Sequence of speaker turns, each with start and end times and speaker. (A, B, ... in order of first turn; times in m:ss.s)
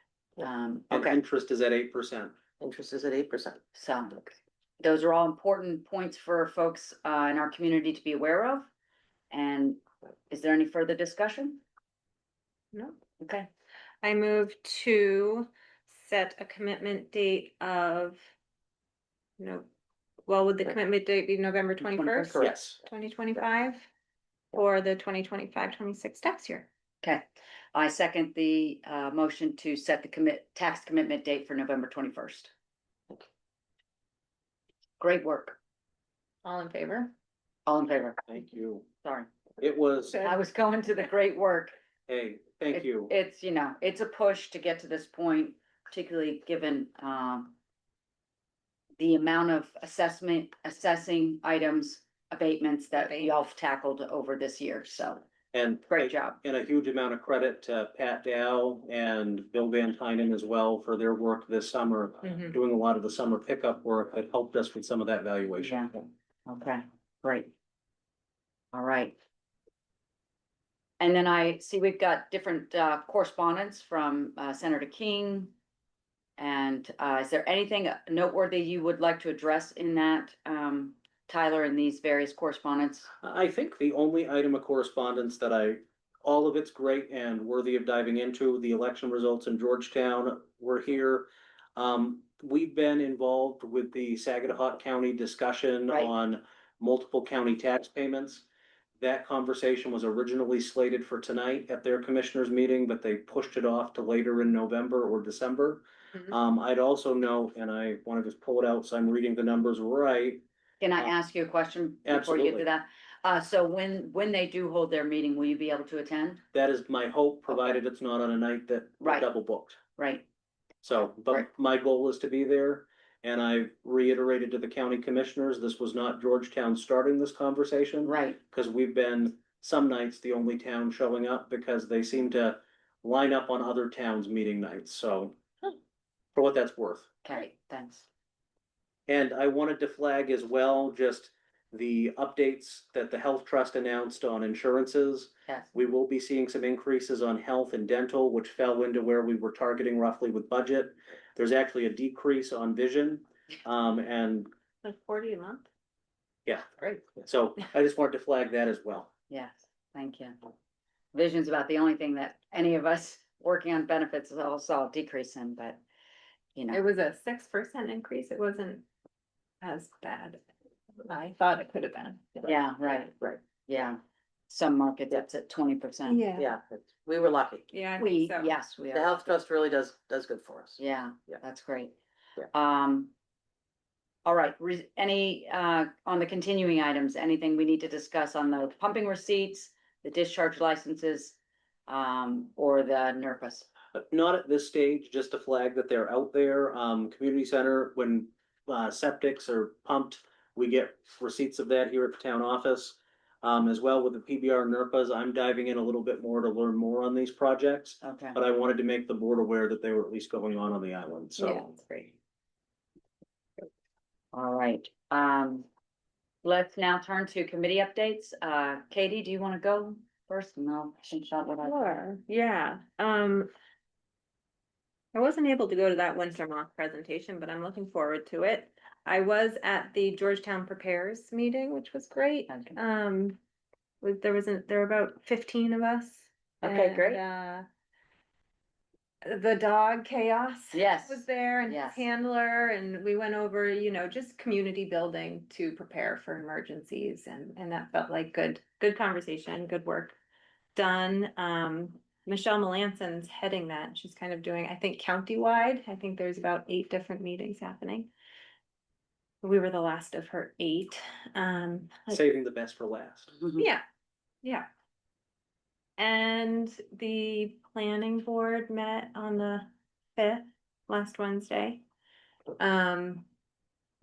0:00.4-0:01.2 A
0:00.9-0:02.3 B
0:02.6-0:03.6 C
0:03.7-0:08.7 A
0:09.3-0:11.6 A
0:12.7-0:13.0 D
0:13.2-0:13.5 A
0:14.0-0:18.2 D
0:19.4-0:19.7 D
0:20.3-0:23.8 D
0:21.8-0:22.6 A
0:22.4-0:22.8 B
0:24.5-0:26.7 D
0:27.0-0:32.5 A
0:35.0-0:35.6 A
0:36.4-0:37.1 D
0:37.7-0:38.2 A
0:38.3-0:38.8 B
0:39.0-0:39.3 A
0:39.6-0:40.2 B
0:40.1-0:41.7 A
0:42.1-0:43.1 B
0:42.7-0:47.5 A
0:49.0-0:55.2 A
0:53.0-0:53.3 D
0:55.5-1:06.0 B
0:55.9-0:56.4 A
1:02.2-1:02.5 D
1:05.6-1:05.9 A
1:06.5-1:07.5 A
1:08.7-1:09.2 A
1:11.0-1:15.5 A
1:16.4-1:23.1 A
1:23.2-1:38.4 B
1:39.0-1:50.4 B
1:50.8-1:56.4 A
1:52.0-1:52.6 B
1:56.5-1:59.8 B
1:57.5-1:57.8 A
1:59.0-1:59.3 A
2:00.0-2:00.2 A
2:00.8-2:15.4 B
2:08.0-2:08.4 A
2:16.3-2:17.1 B
2:17.2-2:18.0 A
2:19.1-2:34.5 B
2:34.8-2:35.7 D
2:36.4-2:39.1 B
2:39.3-2:40.4 A
2:41.1-2:45.8 A
2:46.5-2:46.8 A
2:46.7-2:48.8 D
2:49.6-2:50.4 D
2:51.0-2:52.4 D
2:52.4-2:53.1 A
2:53.7-2:56.2 A
2:56.1-2:56.5 D
2:56.4-2:57.6 C
2:57.7-2:58.5 D
2:58.0-2:59.2 A
2:58.9-3:00.8 C
3:00.8-3:01.9 A
3:02.5-3:03.1 A
3:04.2-3:13.7 A
3:13.9-3:31.6 B
3:28.0-3:28.4 A
3:31.4-3:32.1 D
3:34.3-3:35.7 A
3:36.4-3:42.0 A
3:41.6-3:43.5 D
3:45.1-3:53.4 D
3:52.5-3:52.8 A
3:54.0-3:57.6 D
3:56.6-3:57.2 A
3:59.2-4:10.2 D
4:00.7-4:02.0 A
4:10.7-4:18.1 D
4:19.4-4:22.2 D
4:22.1-4:23.3 B
4:23.6-4:23.8 D
4:24.4-4:24.7 D
4:26.0-4:31.8 D
4:32.6-4:33.3 D